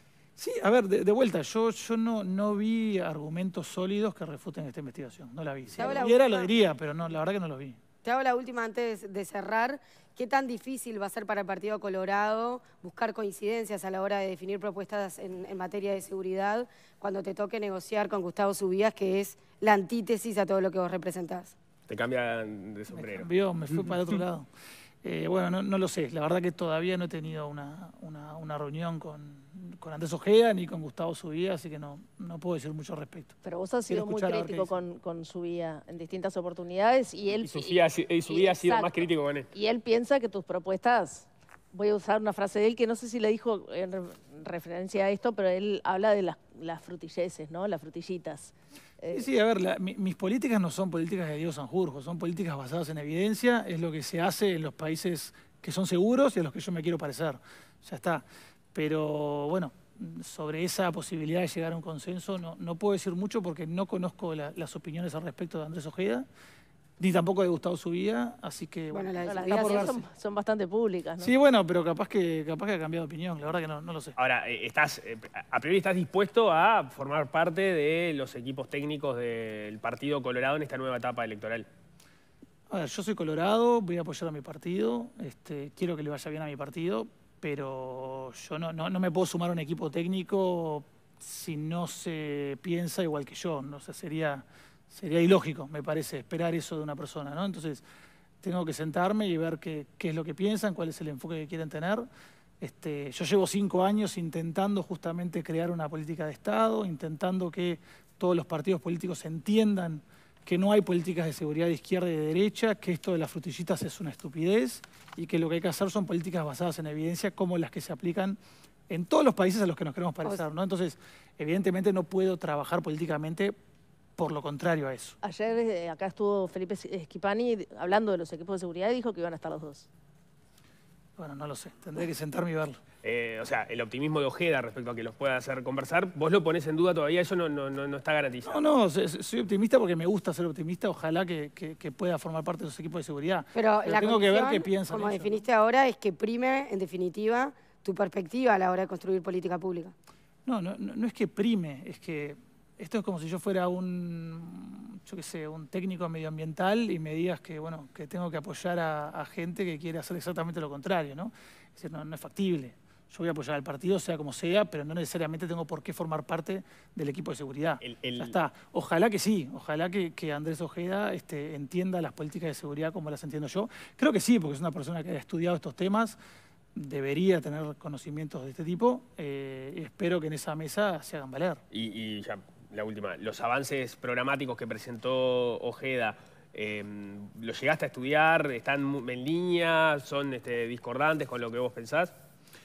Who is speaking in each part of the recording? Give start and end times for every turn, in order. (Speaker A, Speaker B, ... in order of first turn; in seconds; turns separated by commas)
Speaker A: 0.3-7.8, Speaker B: 5.8-6.5, Speaker B: 8.0-21.5, Speaker C: 21.9-23.3, Speaker A: 22.9-24.5, Speaker A: 25.0-33.4, Speaker D: 33.4-49.2, Speaker A: 33.9-34.8, Speaker C: 37.4-39.5, Speaker A: 49.1-66.3, Speaker A: 67.0-70.0, Speaker B: 68.9-70.0, Speaker D: 69.2-71.3, Speaker A: 71.2-74.1, Speaker C: 74.2-81.7, Speaker A: 82.7-97.8, Speaker A: 98.4-102.0, Speaker A: 102.6-123.5, Speaker A: 124.2-125.2, Speaker D: 125.2-129.9, Speaker A: 131.2-132.8, Speaker C: 133.0-138.6, Speaker A: 138.4-145.4, Speaker B: 143.5-149.9, Speaker A: 150.4-176.2, Speaker C: 167.8-168.3, Speaker A: 176.7-181.6, Speaker C: 181.7-192.1